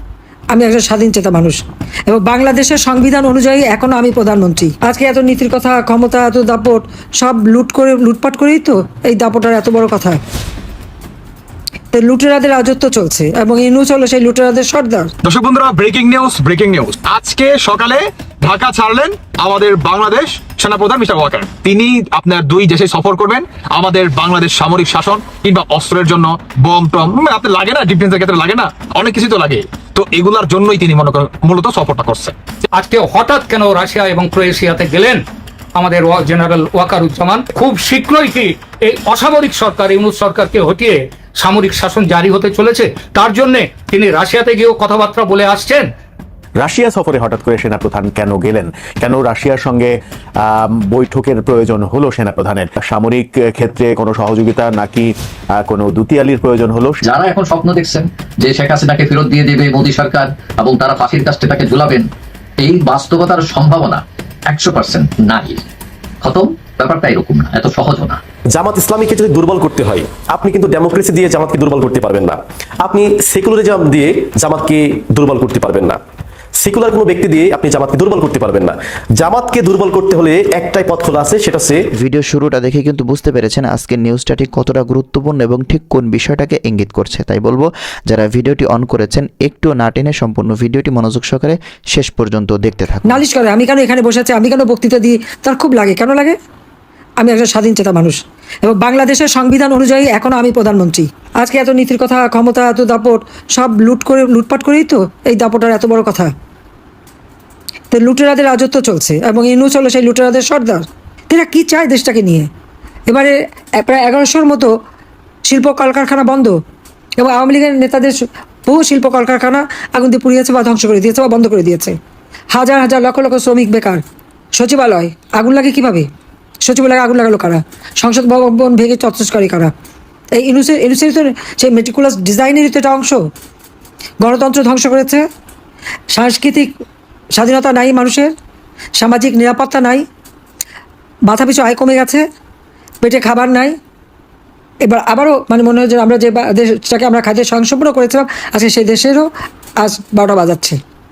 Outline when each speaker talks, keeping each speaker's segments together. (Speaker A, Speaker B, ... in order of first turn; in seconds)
Speaker A: 0.5-10.2, 11.9-15.1, 93.0-96.3, 97.2-106.3, 107.9-112.5, 113.1-114.7, 115.5-116.5, 117.2-118.1, 118.7-122.0, 122.5-124.0, 124.6-126.1, 126.6-129.7, 130.3-133.2, 134.2-135.2, 136.1-136.7, 137.4-138.3, 139.0-140.0, 141.3-142.2, 143.0-143.7, 144.9-149.3, 149.8-150.8
Speaker B: 15.2-32.4
Speaker C: 32.7-35.2, 35.8-45.9
Speaker D: 46.6-57.0
Speaker E: 57.0-62.0, 62.6-65.6, 66.2-68.2
Speaker F: 68.5-76.0, 76.6-81.8
Speaker G: 82.0-93.2